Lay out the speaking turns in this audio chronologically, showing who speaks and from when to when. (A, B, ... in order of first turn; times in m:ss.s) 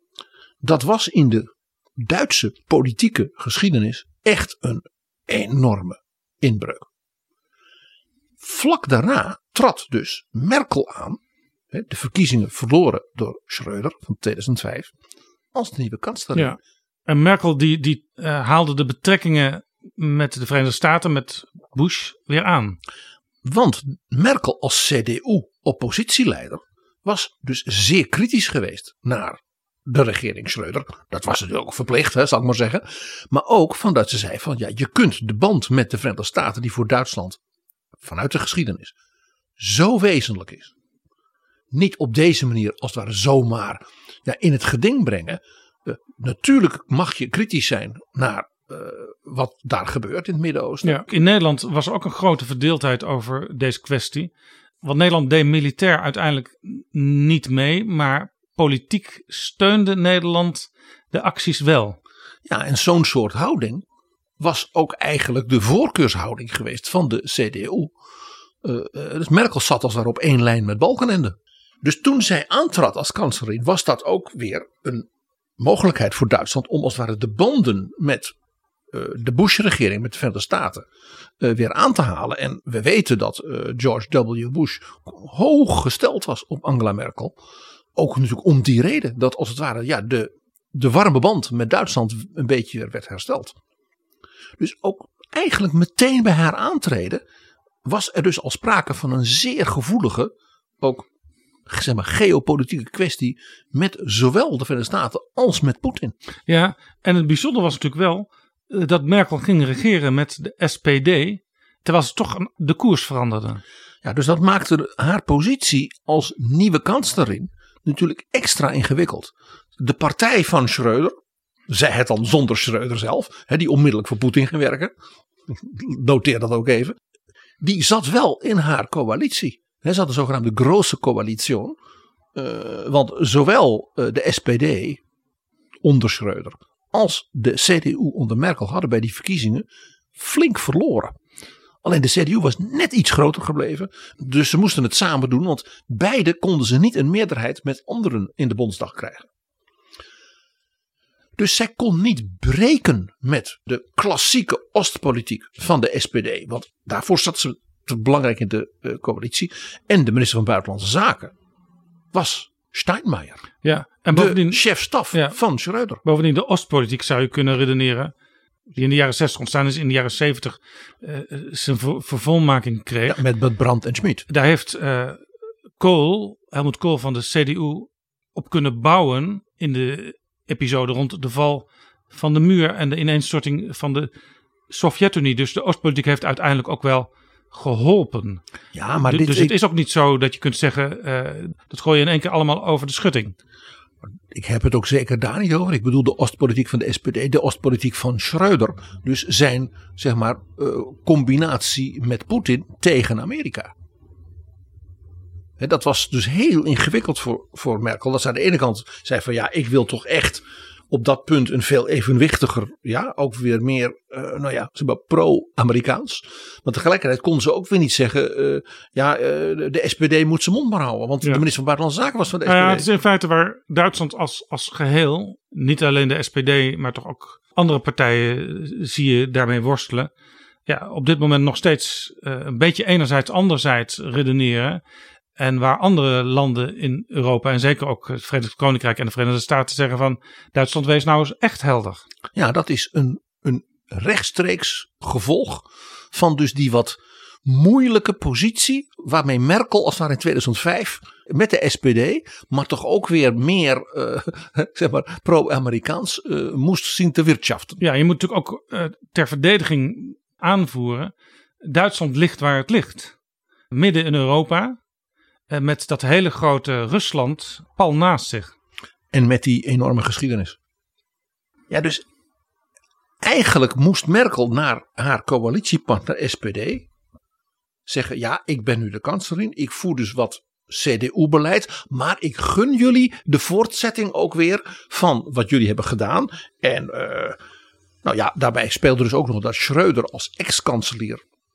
0:00.6-0:06.9 A
0:08.4-0:11.2 A
0:11.7-0:14.9 A
0:15.5-0:16.6 A
0:16.4-0:22.8 B
0:23.4-0:37.4 A
0:38.0-0:38.9 A
0:39.6-0:40.7 A
0:41.7-0:51.0 A
0:50.8-0:54.3 B
0:54.8-1:02.0 B
1:02.5-1:03.8 A
1:04.4-1:07.9 A
1:08.6-1:15.1 A
1:15.6-1:18.3 A
1:18.9-1:20.9 A
1:21.4-1:27.4 A
1:28.0-1:33.6 A
1:34.6-1:37.2 A
1:37.8-1:41.1 A
1:41.7-1:46.2 A
1:46.5-1:53.6 B
1:54.0-2:01.2 A
2:01.7-2:04.9 A
2:05.5-2:07.0 A
2:07.6-2:11.8 A
2:12.4-2:15.0 A
2:15.8-2:21.2 A
2:21.8-2:29.3 A
2:31.4-2:41.3 A
2:42.1-2:43.5 A
2:43.6-2:45.4 B
2:44.1-2:46.0 A
2:46.0-2:48.1 B
2:48.7-2:53.2 B
2:53.1-2:54.2 A
2:54.3-3:04.1 B
3:04.7-3:08.4 B
3:08.7-3:09.6 A
3:09.1-3:13.4 B
3:14.0-3:23.7 A
3:25.6-3:42.9 A
3:42.5-3:50.1 B
3:50.7-3:54.8 B
3:55.4-4:02.0 B
4:02.3-4:17.8 A
4:17.8-4:23.2 B
4:23.7-4:24.8 B
4:25.5-4:28.5 B
4:29.1-4:30.6 A
4:31.7-4:32.0 A
4:33.2-4:36.9 A
4:37.9-4:47.4 A
4:48.0-4:51.2 A